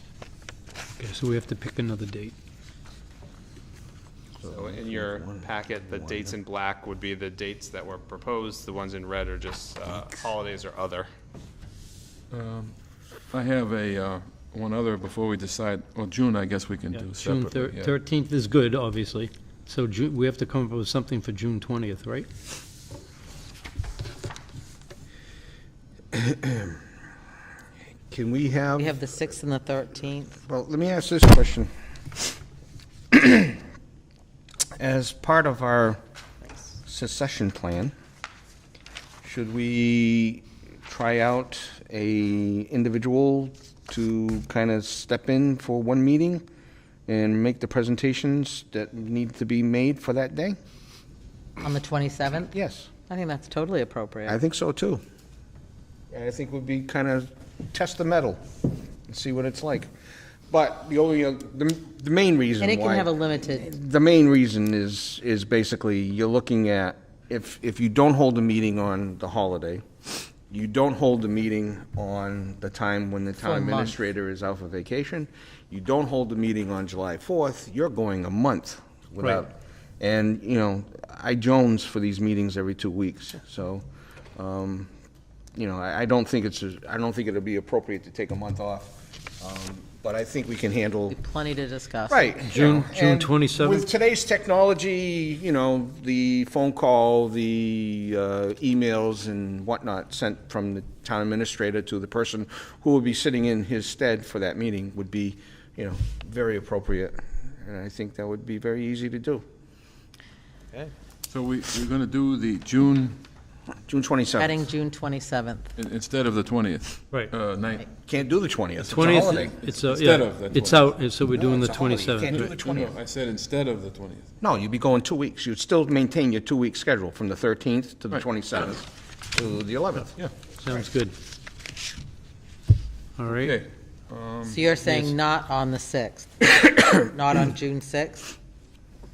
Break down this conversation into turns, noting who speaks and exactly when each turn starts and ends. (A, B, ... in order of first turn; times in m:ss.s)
0:01.0-0:02.3 A
0:04.4-0:06.3 B
0:04.4-0:11.1 C
0:12.3-0:12.8 D
0:13.3-0:17.9 D
0:16.9-0:22.3 A
0:26.1-0:26.8 B
0:28.1-0:29.0 B
0:28.8-0:30.4 E
0:30.4-0:31.7 B
0:33.1-0:33.6 B
0:34.8-0:36.0 B
0:36.8-0:37.9 B
0:39.2-0:46.4 B
0:47.1-0:50.6 B
0:51.6-0:52.5 E
0:52.5-0:52.9 B
0:53.1-0:54.4 E
0:54.3-0:55.0 B
0:56.1-0:58.4 B
0:59.1-0:59.9 B
1:00.5-1:23.8 B
1:02.6-1:03.7 E
1:13.4-1:14.0 E
1:24.4-1:24.9 B
1:25.6-1:31.2 B
1:31.1-1:32.5 E
1:32.1-1:49.4 B
1:32.4-1:33.9 A
1:51.3-1:53.2 D
1:53.9-1:54.6 B
1:54.4-1:55.7 E
1:55.8-1:57.9 D
1:58.0-1:59.5 B
1:58.8-2:02.6 A
1:58.9-2:00.9 D
2:01.3-2:02.9 B
2:02.6-2:04.3 D
2:04.4-2:10.1 B
2:10.2-2:10.4 D
2:10.5-2:11.1 A
2:13.2-2:13.6 A
2:13.4-2:14.7 D
2:14.5-2:18.3 E
2:14.8-2:15.2 A